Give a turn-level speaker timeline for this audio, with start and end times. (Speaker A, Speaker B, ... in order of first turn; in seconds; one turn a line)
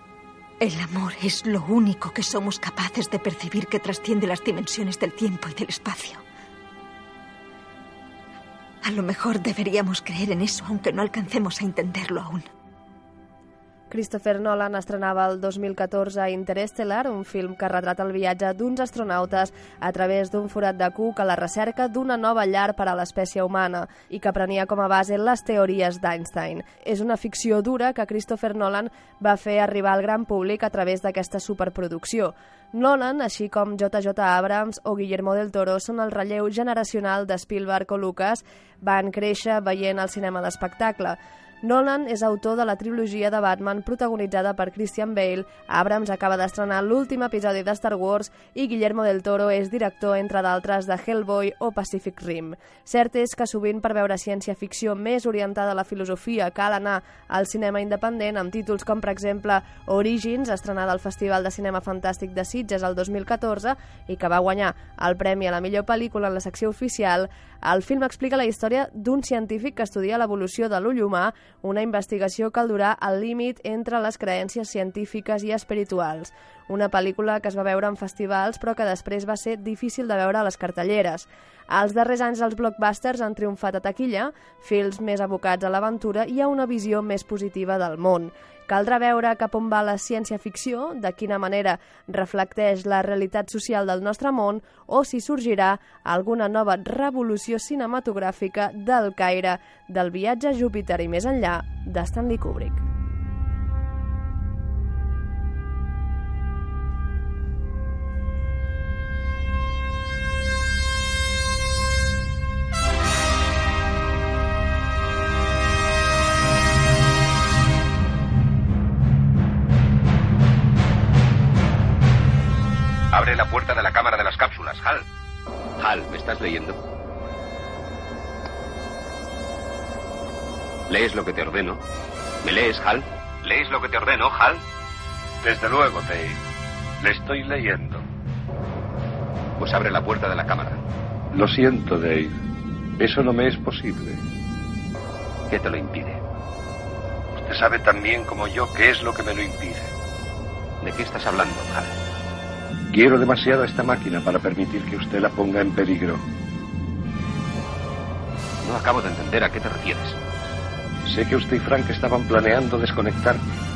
Speaker A: 0.6-6.2
Speaker A: 8.8-12.4
Speaker B: 13.9-102.8
Speaker C: 123.1-125.0
Speaker C: 125.8-126.8
Speaker C: 130.9-131.8
Speaker C: 132.4-134.6
Speaker D: 135.4-136.4
Speaker D: 137.0-138.0
Speaker C: 139.6-140.8
Speaker D: 141.3-142.3
Speaker D: 143.0-144.2
Speaker C: 145.5-146.2
Speaker D: 147.3-149.9
Speaker C: 150.8-151.9
Speaker D: 152.9-156.2
Speaker C: 158.6-160.2
Speaker D: 161.0-163.4